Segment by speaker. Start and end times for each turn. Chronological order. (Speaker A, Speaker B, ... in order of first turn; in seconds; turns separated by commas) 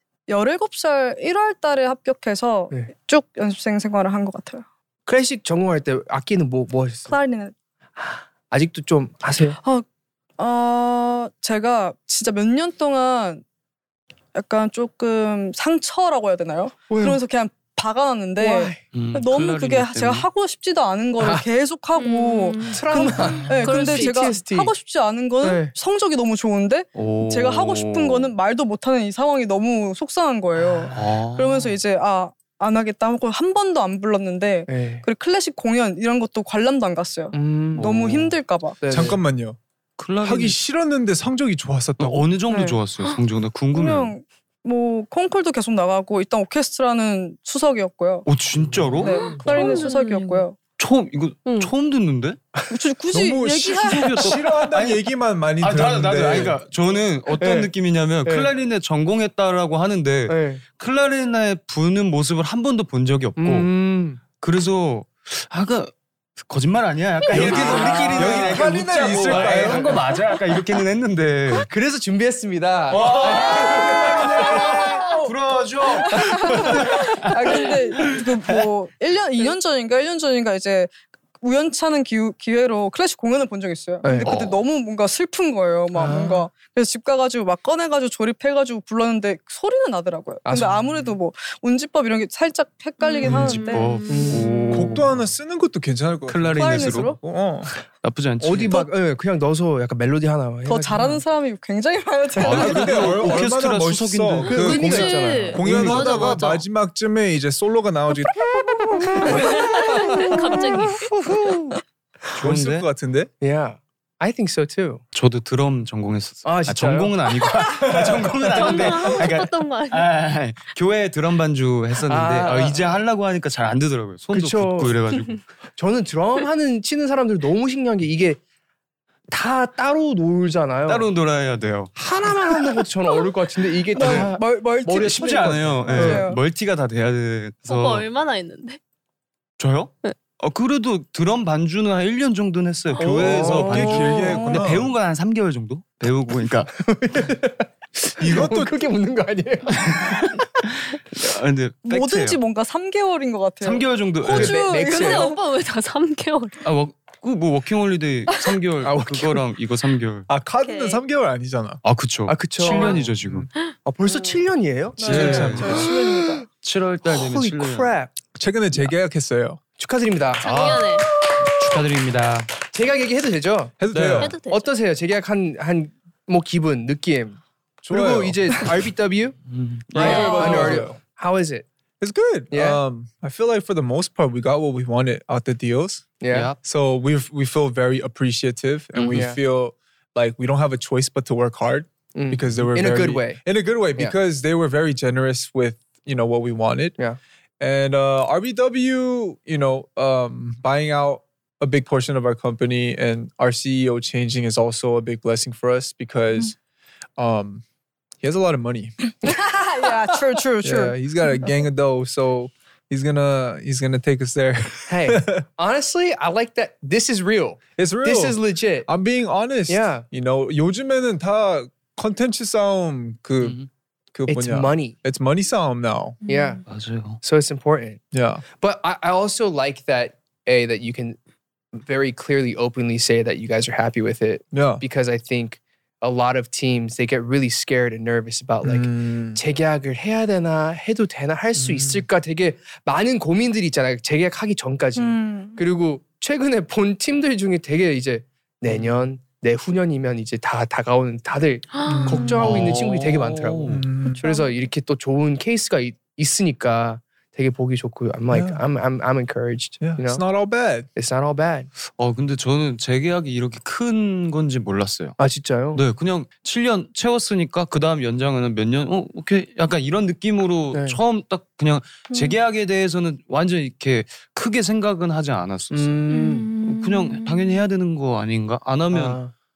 Speaker A: 0.3-4.6, Speaker B: 5.1-7.1, Speaker A: 7.1-7.5, Speaker B: 8.0-9.6, Speaker A: 10.4-13.4, Speaker A: 14.3-38.8, Speaker B: 16.9-17.2, Speaker B: 18.4-18.8, Speaker C: 18.9-20.3, Speaker B: 21.2-21.4, Speaker D: 21.9-24.3, Speaker B: 22.7-24.7, Speaker B: 25.4-25.7, Speaker C: 26.9-28.3, Speaker B: 30.6-31.0, Speaker C: 30.9-31.8, Speaker B: 34.7-35.0, Speaker B: 37.3-39.2, Speaker E: 38.9-39.6, Speaker C: 40.0-40.6, Speaker E: 40.2-42.2, Speaker C: 42.0-44.1, Speaker A: 42.5-42.8, Speaker A: 43.7-48.3, Speaker C: 48.2-49.7, Speaker B: 48.6-49.8, Speaker A: 49.0-50.6, Speaker D: 49.1-50.4, Speaker C: 50.8-52.4, Speaker D: 51.5-51.7, Speaker A: 52.7-54.3, Speaker E: 53.1-56.6, Speaker C: 53.7-55.1, Speaker C: 55.6-63.7, Speaker B: 57.4-57.7, Speaker B: 58.2-58.5, Speaker B: 60.3-60.6, Speaker B: 63.4-64.2, Speaker C: 64.4-71.7, Speaker E: 67.3-70.0, Speaker B: 67.3-70.0, Speaker B: 71.7-75.0, Speaker C: 72.9-78.6, Speaker A: 74.2-75.3, Speaker A: 75.9-94.0, Speaker B: 76.1-77.5, Speaker B: 84.0-84.3, Speaker C: 84.2-84.6, Speaker B: 85.9-86.5, Speaker B: 90.4-91.1, Speaker D: 93.0-94.6, Speaker C: 93.2-95.1, Speaker B: 94.1-94.8, Speaker E: 94.7-97.7, Speaker C: 96.3-97.2, Speaker A: 96.5-97.2, Speaker C: 98.0-98.9, Speaker B: 98.4-101.2, Speaker A: 100.7-103.0, Speaker C: 102.4-104.8, Speaker B: 102.4-103.3, Speaker E: 102.4-108.5, Speaker B: 104.5-106.4, Speaker D: 104.5-106.6, Speaker B: 108.8-111.8, Speaker D: 109.3-111.1, Speaker C: 112.3-112.9, Speaker E: 112.4-113.3, Speaker B: 113.4-115.0, Speaker C: 115.1-125.4, Speaker B: 116.4-117.3, Speaker E: 118.0-118.2, Speaker D: 118.5-120.1, Speaker B: 118.6-118.9, Speaker B: 122.1-122.9, Speaker B: 124.3-125.0, Speaker B: 125.8-128.4, Speaker B: 129.3-131.1, Speaker C: 130.8-131.9, Speaker B: 131.9-136.2, Speaker A: 133.9-136.4, Speaker C: 134.0-134.3, Speaker C: 134.9-138.1, Speaker D: 137.7-138.8, Speaker C: 139.6-146.7, Speaker B: 143.0-144.6, Speaker E: 143.0-144.9, Speaker A: 144.2-144.5, Speaker B: 146.8-150.4, Speaker E: 148.2-148.7, Speaker C: 149.7-150.3, Speaker C: 150.9-152.4, Speaker A: 151.8-155.4, Speaker C: 153.6-154.6, Speaker B: 154.2-155.3, Speaker D: 154.4-156.6, Speaker C: 156.6-160.3, Speaker B: 158.8-159.4, Speaker E: 160.3-161.8, Speaker D: 160.6-161.0, Speaker C: 161.8-163.5, Speaker B: 162.3-163.0, Speaker E: 163.0-163.5, Speaker B: 163.8-166.4, Speaker A: 164.0-164.4, Speaker A: 165.0-166.4, Speaker C: 165.0-165.9, Speaker E: 165.1-165.8, Speaker C: 166.6-167.9, Speaker B: 167.1-168.1, Speaker E: 168.3-169.6, Speaker B: 169.8-170.5, Speaker C: 170.4-172.5, Speaker D: 170.4-171.1, Speaker B: 171.2-171.8, Speaker B: 172.7-173.8, Speaker E: 173.8-174.3, Speaker C: 173.9-174.3, Speaker D: 174.2-174.6, Speaker B: 174.4-179.4, Speaker E: 177.8-178.7, Speaker C: 179.5-180.8, Speaker B: 179.9-181.7, Speaker D: 180.0-180.8, Speaker E: 180.0-181.0, Speaker E: 182.0-186.1, Speaker B: 182.5-182.8, Speaker B: 186.2-186.5, Speaker C: 186.3-186.6, Speaker E: 186.6-197.0, Speaker C: 188.9-189.2, Speaker B: 189.1-189.4, Speaker B: 192.1-193.4, Speaker E: 197.6-206.6, Speaker E: 207.2-207.6, Speaker E: 208.2-209.0, Speaker A: 209.2-211.6, Speaker E: 210.6-215.4, Speaker B: 214.9-218.9, Speaker E: 217.8-223.6, Speaker B: 219.7-220.1, Speaker C: 223.4-223.7, Speaker E: 224.1-226.2, Speaker B: 224.3-224.9, Speaker D: 226.3-226.6, Speaker B: 226.3-226.6, Speaker C: 226.7-227.2, Speaker B: 227.2-231.2, Speaker E: 228.1-228.4, Speaker B: 231.7-260.2, Speaker E: 234.5-234.8, Speaker E: 238.6-239.4, Speaker E: 241.6-242.1, Speaker A: 244.9-245.6, Speaker C: 248.7-248.9, Speaker D: 251.7-252.4, Speaker E: 251.8-252.7, Speaker C: 252.3-253.8, Speaker E: 253.7-254.2, Speaker A: 254.1-254.5, Speaker E: 258.3-258.6, Speaker E: 259.8-260.9, Speaker B: 260.9-261.7, Speaker C: 261.9-265.2, Speaker B: 265.2-265.8, Speaker C: 265.7-276.0, Speaker B: 270.7-271.0, Speaker B: 275.7-276.5, Speaker D: 276.1-277.6, Speaker C: 276.6-279.2, Speaker B: 278.9-279.3